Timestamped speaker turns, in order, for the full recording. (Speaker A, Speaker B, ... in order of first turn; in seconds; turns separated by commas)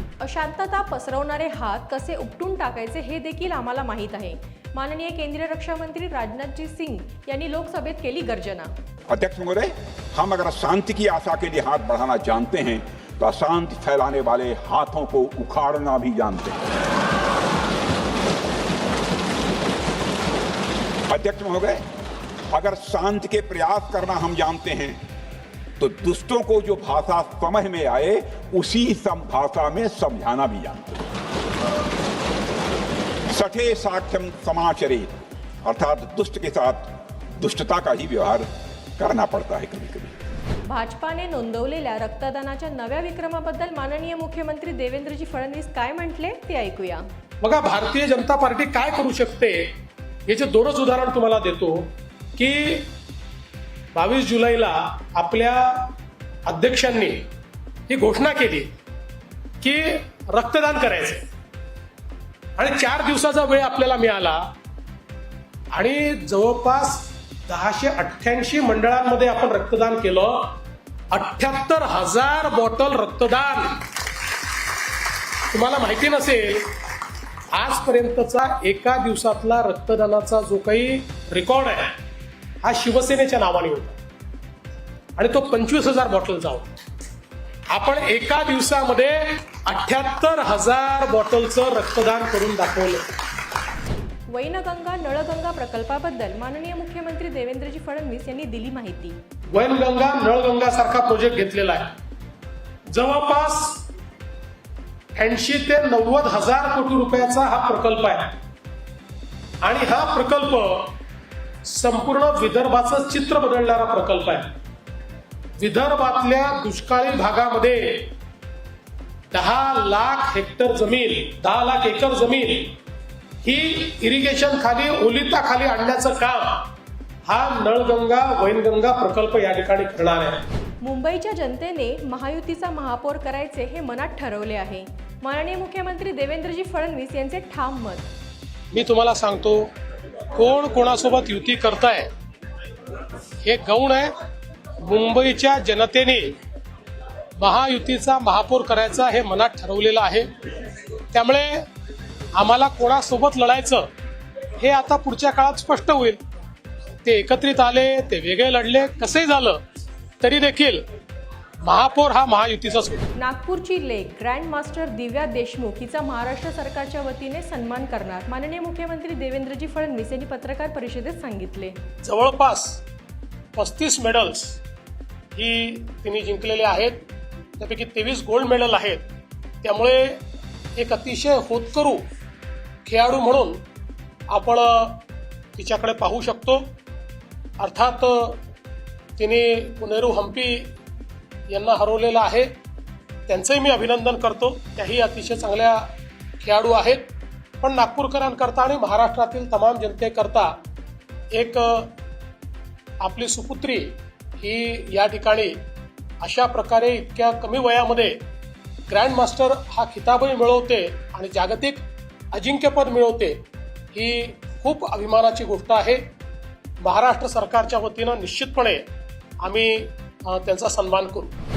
Speaker A: 0.2-8.7, Speaker B: 9.1-16.6, Speaker B: 21.1-21.8, Speaker B: 22.5-25.0, Speaker B: 25.8-31.0, Speaker B: 33.3-35.1, Speaker B: 35.6-38.5, Speaker B: 39.0-40.1, Speaker A: 40.7-47.1, Speaker C: 47.4-49.7, Speaker C: 50.2-52.9, Speaker C: 53.9-55.9, Speaker C: 56.5-57.2, Speaker C: 57.9-58.7, Speaker C: 59.6-61.2, Speaker C: 62.6-64.5, Speaker C: 65.7-70.6, Speaker C: 71.1-73.9, Speaker C: 75.5-76.7, Speaker C: 77.5-82.0, Speaker C: 82.6-84.0, Speaker C: 85.2-86.7, Speaker C: 87.7-93.1, Speaker A: 94.3-99.2, Speaker C: 99.5-101.9, Speaker C: 102.9-103.8, Speaker C: 105.1-108.3, Speaker C: 109.6-111.0, Speaker C: 111.6-114.5, Speaker C: 115.6-118.1, Speaker C: 119.3-122.8, Speaker C: 123.4-126.7, Speaker C: 127.2-130.4, Speaker A: 130.8-138.1, Speaker C: 138.7-139.7, Speaker C: 140.3-142.1, Speaker C: 143.4-144.2, Speaker C: 144.8-146.4, Speaker C: 147.4-150.3, Speaker C: 151.1-151.7, Speaker C: 152.3-153.9, Speaker C: 154.6-156.2, Speaker C: 157.0-159.6, Speaker C: 160.2-160.8, Speaker C: 161.6-163.1, Speaker A: 163.1-171.8, Speaker C: 172.0-172.8, Speaker C: 173.5-174.6, Speaker C: 175.3-177.1, Speaker C: 177.6-179.1, Speaker C: 179.6-180.2, Speaker C: 180.8-182.1, Speaker C: 182.8-183.6, Speaker C: 184.3-185.0, Speaker C: 185.5-186.7, Speaker C: 187.6-188.4, Speaker C: 189.2-190.7, Speaker C: 191.5-192.6, Speaker C: 193.3-200.6, Speaker C: 201.3-201.9, Speaker C: 203.0-205.6, Speaker C: 206.2-208.2, Speaker C: 208.9-216.1, Speaker C: 216.8-218.9, Speaker C: 219.4-221.3